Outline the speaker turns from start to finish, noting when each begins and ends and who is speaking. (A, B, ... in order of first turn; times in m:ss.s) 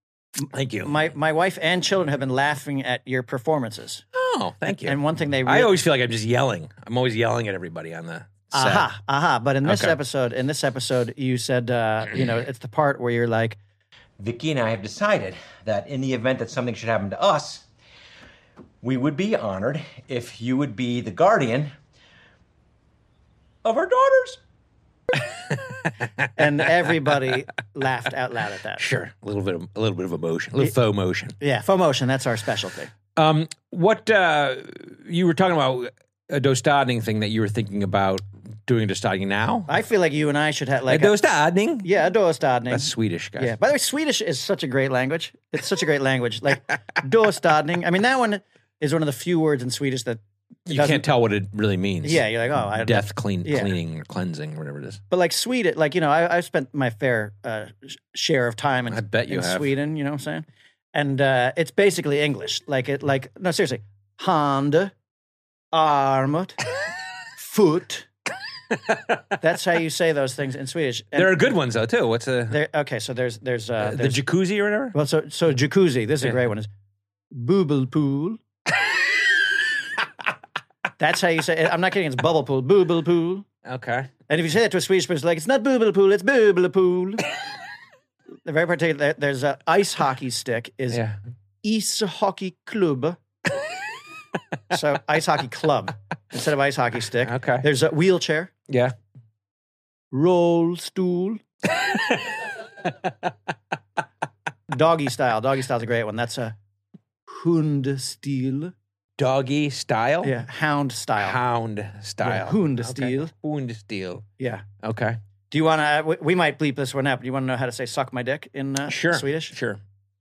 0:00.5-0:01.1 A
0:00.8-0:04.0 B
0:04.1-0:08.9 A
0:04.8-0:05.7 B
0:08.5-0:13.6 B
0:09.6-0:10.0 A
0:14.2-0:17.6 C
0:18.8-0:21.7 C
0:23.6-0:24.4 C
0:26.3-0:28.8 B
0:28.8-0:31.3 A
0:31.4-0:32.9 B
0:33.2-0:39.7 A
0:39.7-0:41.2 B
0:40.9-0:41.9 A
0:41.8-0:51.0 B
0:42.7-0:43.6 A
0:50.7-0:55.0 A
0:52.0-0:53.7 B
0:55.1-1:04.9 B
0:58.9-0:59.7 A
1:05.7-1:06.6 B
1:07.4-1:08.1 B
1:09.4-1:11.5 B
1:11.1-1:12.6 A
1:12.5-1:14.2 B
1:13.8-1:15.0 A
1:14.9-1:16.7 B
1:17.3-1:18.4 B
1:21.0-1:23.4 B
1:23.6-1:24.1 A
1:24.3-1:27.2 B
1:28.4-1:31.0 B
1:30.9-1:31.2 A
1:31.6-1:33.2 B
1:34.7-1:38.5 B
1:37.2-1:37.6 A
1:38.7-1:38.9 A
1:40.1-1:41.4 B
1:41.7-1:43.3 A
1:44.7-1:46.5 B
1:47.3-1:48.7 B
1:49.2-1:50.3 A
1:50.2-1:51.4 B
1:51.2-1:54.3 A
1:52.2-1:53.3 B
1:54.4-1:54.6 B
1:54.8-1:55.2 A
1:55.5-1:59.5 B
1:58.9-1:59.8 A